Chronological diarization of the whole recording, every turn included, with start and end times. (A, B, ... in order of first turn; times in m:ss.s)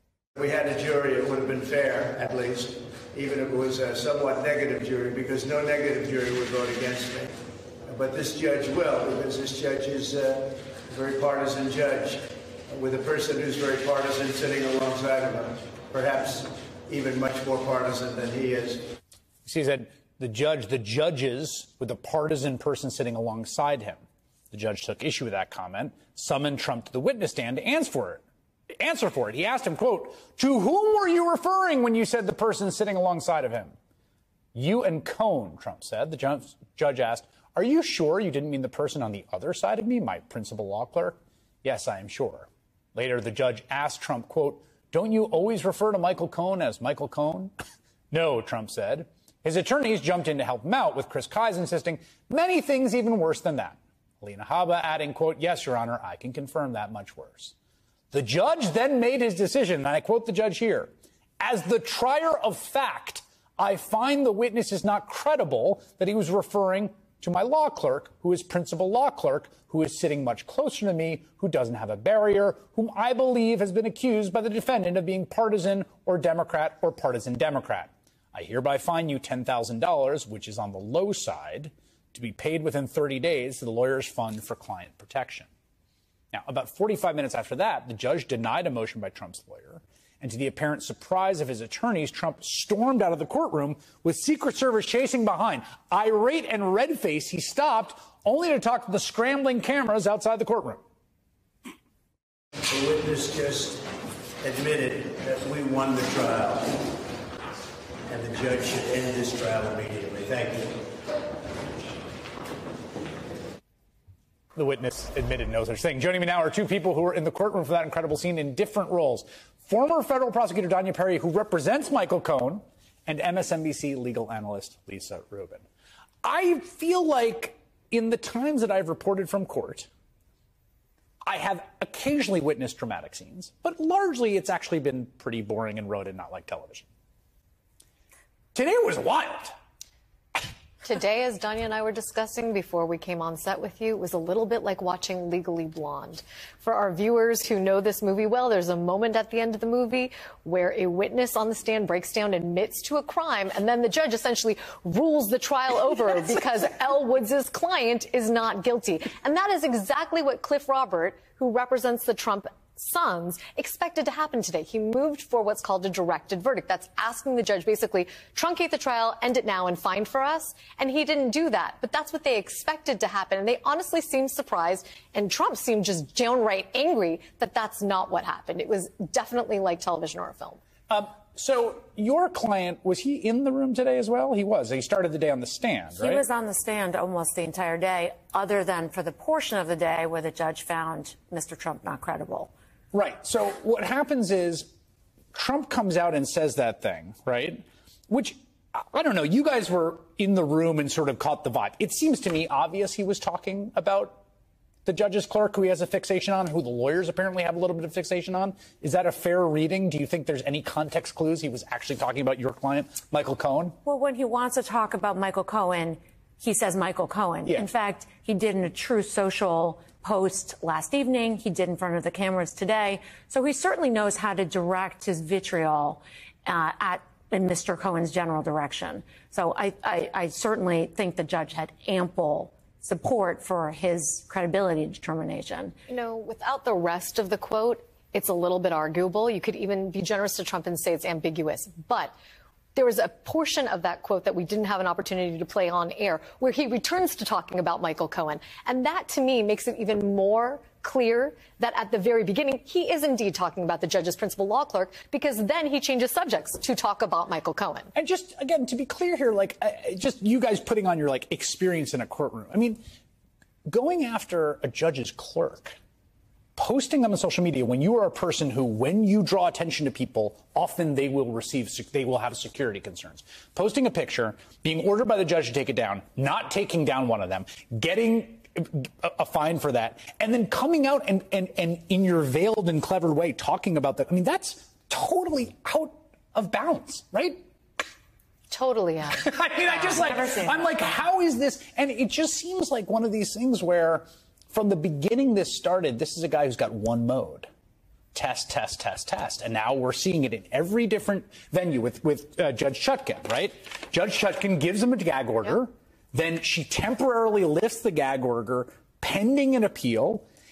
0:00.4-0:19.0 A
0:19.4-0:28.2 B
0:28.8-0:33.7 B
0:34.5-0:47.5 B
0:48.1-0:57.5 B
0:58.1-1:25.5 B
1:26.3-1:40.8 B
1:42.7-1:43.8 A
1:44.4-1:46.8 A
1:48.1-1:50.8 A
1:54.6-2:05.6 B
2:06.2-2:09.9 B
2:11.2-2:16.9 B
2:18.5-2:19.5 B
2:20.8-3:00.6 C
3:00.9-3:06.2 B
3:06.0-3:12.5 D
3:12.9-3:14.7 B
3:15.3-3:24.2 B
3:24.8-3:33.8 B
3:33.8-3:55.7 D
3:55.9-4:02.1 C
4:02.7-4:17.9 C
4:17.9-4:22.8 B
4:23.7-4:25.8 B
4:26.6-4:47.4 B
4:48.5-4:49.3 C
4:49.1-4:57.5 B
4:49.7-4:50.7 D
4:58.1-5:10.2 B